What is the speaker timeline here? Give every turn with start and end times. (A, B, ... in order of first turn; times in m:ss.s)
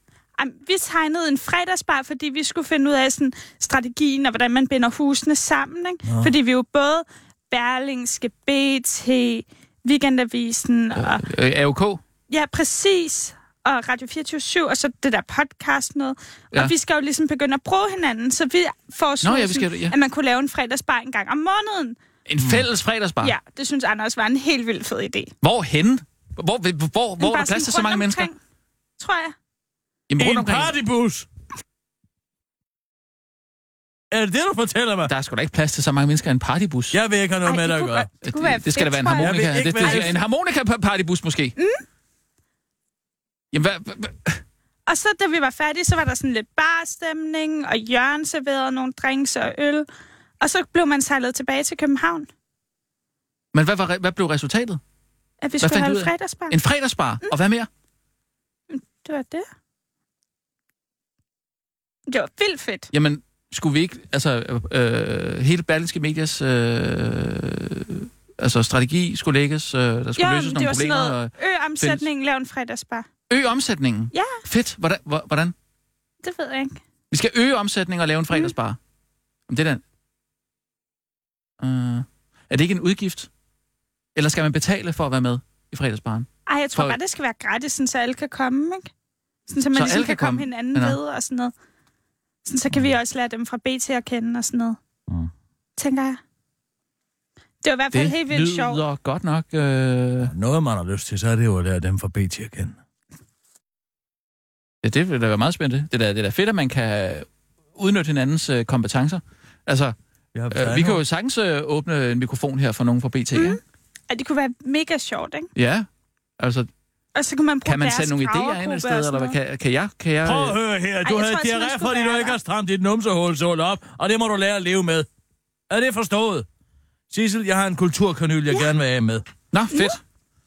0:00.4-0:11.2 A
0:06.0-0:06.3 B
0:11.0-0:12.0 C
0:12.3-0:22.0 A
0:19.2-0:19.9 C
0:22.3-0:23.3 C
0:23.2-0:25.3 A
0:25.4-0:28.3 C
0:27.2-0:28.4 A
0:29.0-0:29.3 A
0:30.1-0:30.7 C
0:30.2-0:31.3 B
0:34.1-0:35.1 B
0:35.1-0:37.0 C
0:36.9-0:38.1 B
0:37.4-0:40.2 A
0:38.2-0:41.5 C
0:39.1-0:40.2 B
0:41.6-0:41.8 A
0:43.5-0:44.4 C
0:44.9-0:49.9 A
0:50.4-0:52.3 A
0:53.5-0:54.8 C
0:55.4-0:56.6 A
0:55.6-0:57.7 C
0:58.7-0:59.4 A
1:02.1-1:02.9 A
1:02.9-1:12.0 C
1:10.2-1:13.1 A
1:13.3-1:15.5 C
1:14.1-1:14.4 A
1:16.2-1:16.8 A
1:17.1-1:18.8 C
1:19.5-1:19.8 C
1:21.6-1:23.3 C
1:24.2-1:27.0 C
1:26.5-1:28.9 A
1:29.5-1:31.5 A
1:29.7-1:31.0 C
1:32.4-1:34.8 A
1:35.8-1:36.2 A
1:37.6-1:38.8 A
1:37.9-1:40.3 C
1:40.2-1:42.8 B
1:44.8-1:49.9 C
1:50.3-1:51.0 B
1:50.5-1:53.6 C
1:53.3-1:55.5 A
1:55.6-1:55.8 C
1:56.4-1:56.7 C
1:57.1-1:59.4 A
1:57.6-2:00.6 C
2:00.2-2:05.1 B
2:01.0-2:02.4 A
2:05.7-2:06.4 B
2:07.1-2:09.2 B
2:09.5-2:10.0 C
2:09.7-2:10.0 A